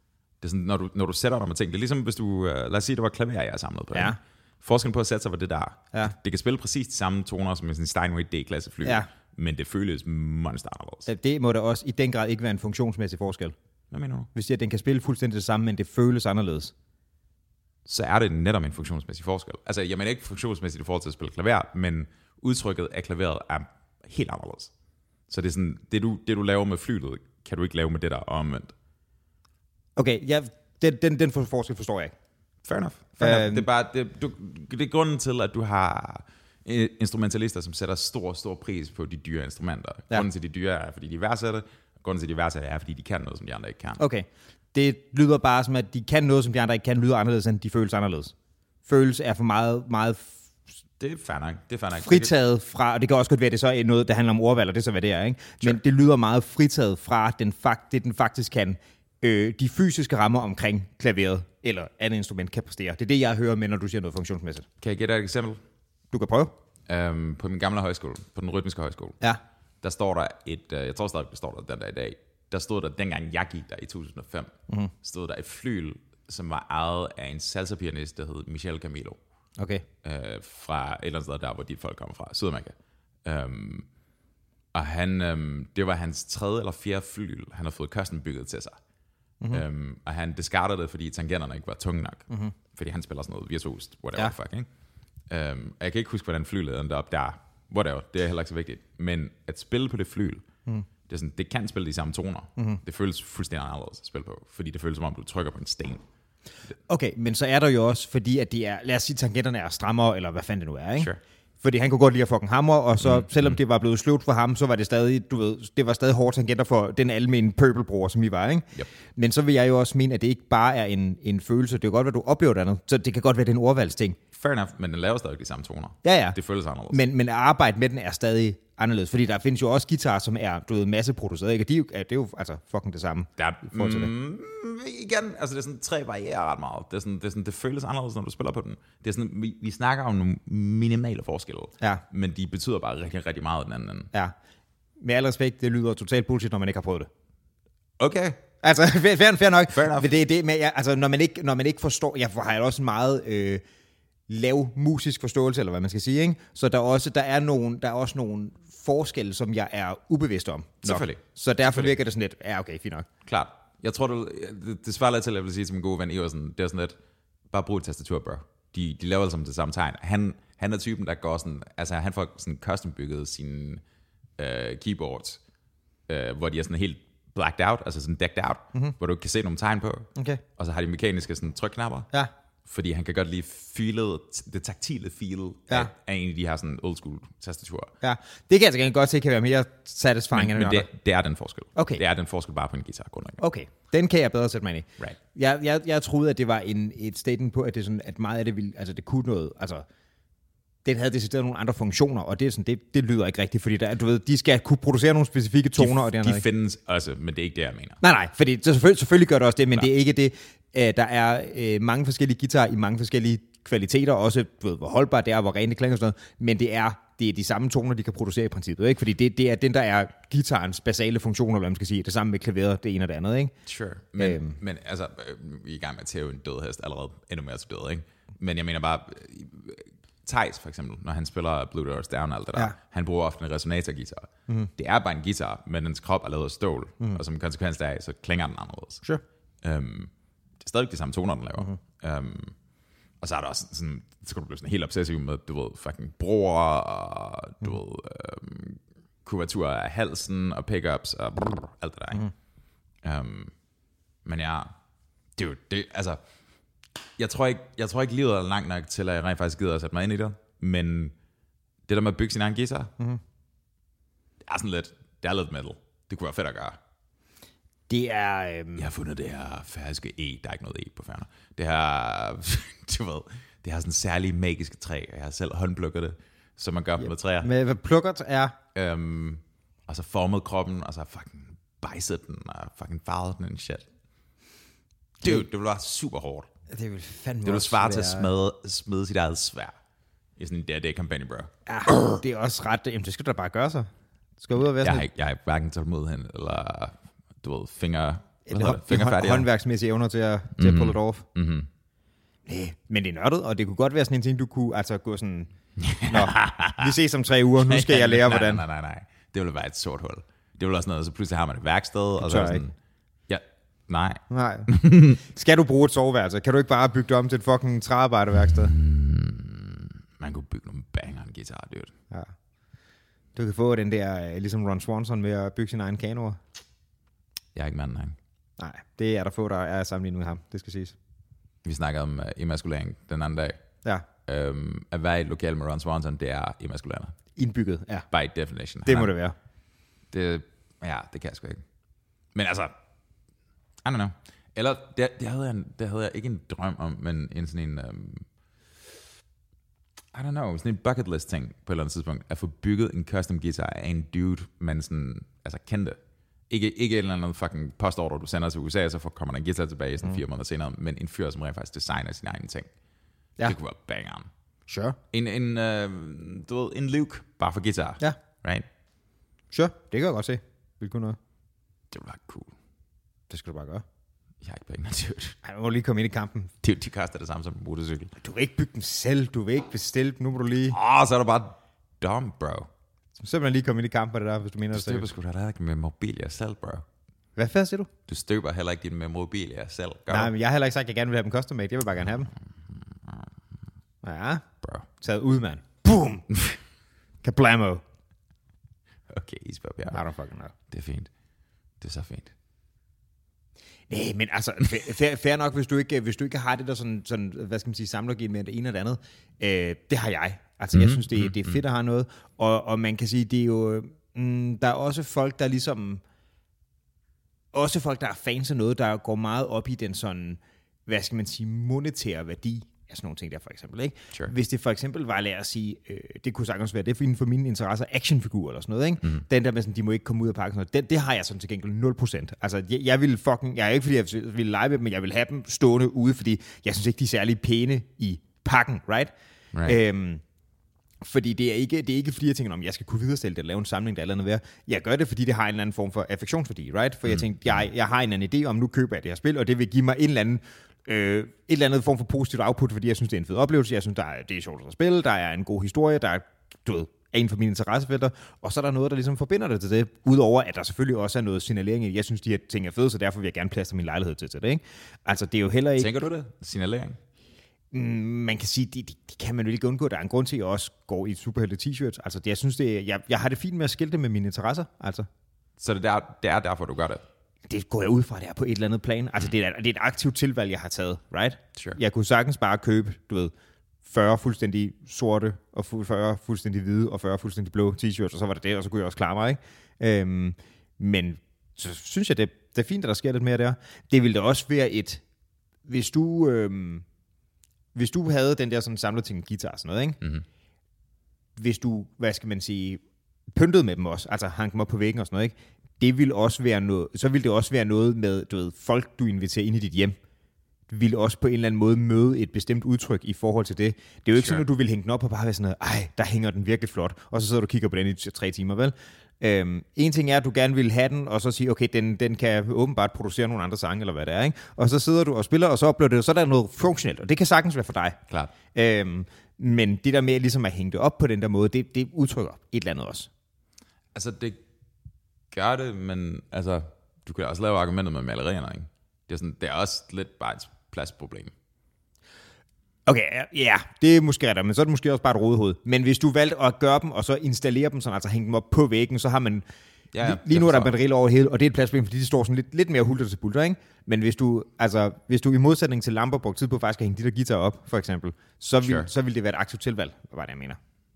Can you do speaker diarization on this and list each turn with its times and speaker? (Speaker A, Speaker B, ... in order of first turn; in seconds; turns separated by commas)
Speaker A: 0.4-11.1, Speaker B: 8.8-9.1, Speaker B: 11.1-13.5, Speaker A: 13.9-14.3, Speaker B: 14.3-16.7, Speaker A: 17.9-24.7, Speaker A: 25.3-28.7, Speaker B: 29.9-32.1, Speaker A: 32.6-44.0, Speaker B: 33.2-33.7, Speaker B: 44.0-48.3, Speaker B: 48.9-50.3, Speaker A: 51.0-52.3, Speaker B: 52.0-64.7, Speaker A: 64.8-65.6, Speaker B: 66.1-66.5, Speaker A: 66.9-69.2, Speaker A: 69.8-79.2, Speaker B: 79.6-79.8, Speaker A: 80.0-83.9, Speaker A: 84.7-88.8, Speaker A: 89.5-94.7, Speaker A: 95.3-100.4, Speaker A: 101.1-106.0, Speaker B: 106.9-111.1, Speaker B: 111.6-124.2, Speaker A: 113.0-113.5, Speaker A: 124.3-127.0, Speaker B: 126.0-126.4, Speaker B: 126.9-134.1, Speaker A: 133.4-144.1, Speaker B: 145.0-147.1, Speaker A: 148.0-148.4, Speaker B: 148.6-153.6, Speaker A: 149.7-150.1, Speaker B: 154.3-163.1, Speaker A: 160.8-161.9, Speaker A: 163.2-166.9, Speaker A: 167.5-173.8, Speaker A: 174.4-175.4, Speaker A: 176.1-182.1, Speaker B: 180.2-180.4, Speaker A: 182.6-187.9, Speaker B: 188.0-190.9, Speaker A: 190.3-193.4, Speaker B: 191.7-192.0, Speaker B: 193.4-199.8, Speaker B: 200.8-206.4, Speaker A: 205.8-208.0, Speaker B: 208.0-223.5, Speaker A: 223.7-239.0, Speaker B: 224.2-224.6, Speaker A: 239.6-242.5, Speaker A: 243.2-252.3, Speaker A: 253.0-253.5, Speaker A: 254.2-254.7, Speaker A: 255.4-256.2, Speaker A: 257.2-261.1, Speaker A: 261.9-262.9, Speaker A: 264.5-266.8, Speaker B: 267.9-268.9, Speaker A: 268.8-277.5, Speaker B: 277.0-278.6, Speaker A: 278.7-283.9, Speaker A: 285.2-286.5, Speaker B: 286.7-288.3, Speaker A: 287.4-289.7, Speaker A: 290.4-291.5, Speaker B: 291.7-295.1, Speaker A: 294.7-299.5, Speaker B: 298.5-301.2, Speaker A: 300.6-301.7, Speaker B: 302.4-305.5, Speaker A: 305.8-306.9, Speaker B: 306.0-308.6, Speaker A: 307.5-312.8, Speaker B: 312.2-312.6, Speaker A: 313.3-315.2, Speaker B: 314.3-318.7, Speaker A: 318.4-321.9, Speaker B: 323.3-326.4, Speaker A: 327.5-328.2, Speaker B: 328.6-330.9, Speaker A: 331.6-333.6, Speaker A: 334.2-337.1, Speaker B: 337.4-338.1, Speaker A: 338.1-339.1, Speaker B: 338.9-339.4, Speaker A: 340.1-341.6, Speaker A: 342.3-342.7, Speaker A: 343.8-348.2, Speaker A: 350.1-356.0, Speaker A: 356.5-362.7, Speaker A: 363.4-364.3, Speaker B: 364.7-365.0, Speaker A: 365.1-368.6, Speaker B: 369.5-371.2, Speaker A: 371.9-372.5, Speaker B: 373.3-373.8, Speaker A: 374.4-375.4, Speaker B: 375.4-376.5, Speaker A: 376.6-378.1, Speaker B: 378.2-380.8, Speaker A: 380.7-382.7, Speaker B: 383.2-385.1, Speaker A: 384.7-386.8, Speaker B: 387.4-387.9, Speaker A: 388.1-390.3, Speaker B: 390.1-392.3, Speaker A: 392.7-393.3, Speaker B: 394.0-394.4, Speaker B: 395.0-396.3, Speaker B: 397.2-397.8, Speaker A: 399.1-400.0, Speaker B: 399.9-400.5, Speaker A: 400.7-401.1, Speaker A: 401.8-402.3, Speaker B: 403.9-416.0, Speaker A: 410.7-411.6, Speaker B: 417.5-439.1, Speaker A: 439.5-439.8, Speaker B: 439.6-440.2, Speaker B: 441.0-465.9, Speaker A: 465.8-467.0, Speaker B: 467.7-475.1, Speaker A: 475.6-477.0, Speaker B: 477.5-483.3, Speaker B: 483.8-495.0, Speaker B: 495.6-496.9, Speaker B: 497.7-500.0, Speaker B: 501.4-509.9, Speaker B: 510.7-528.0, Speaker A: 514.2-514.4, Speaker A: 528.1-528.3, Speaker B: 528.5-533.1, Speaker A: 533.9-534.4, Speaker A: 535.3-541.3, Speaker B: 542.9-549.4, Speaker A: 549.9-550.7, Speaker B: 550.0-560.6, Speaker A: 558.6-558.9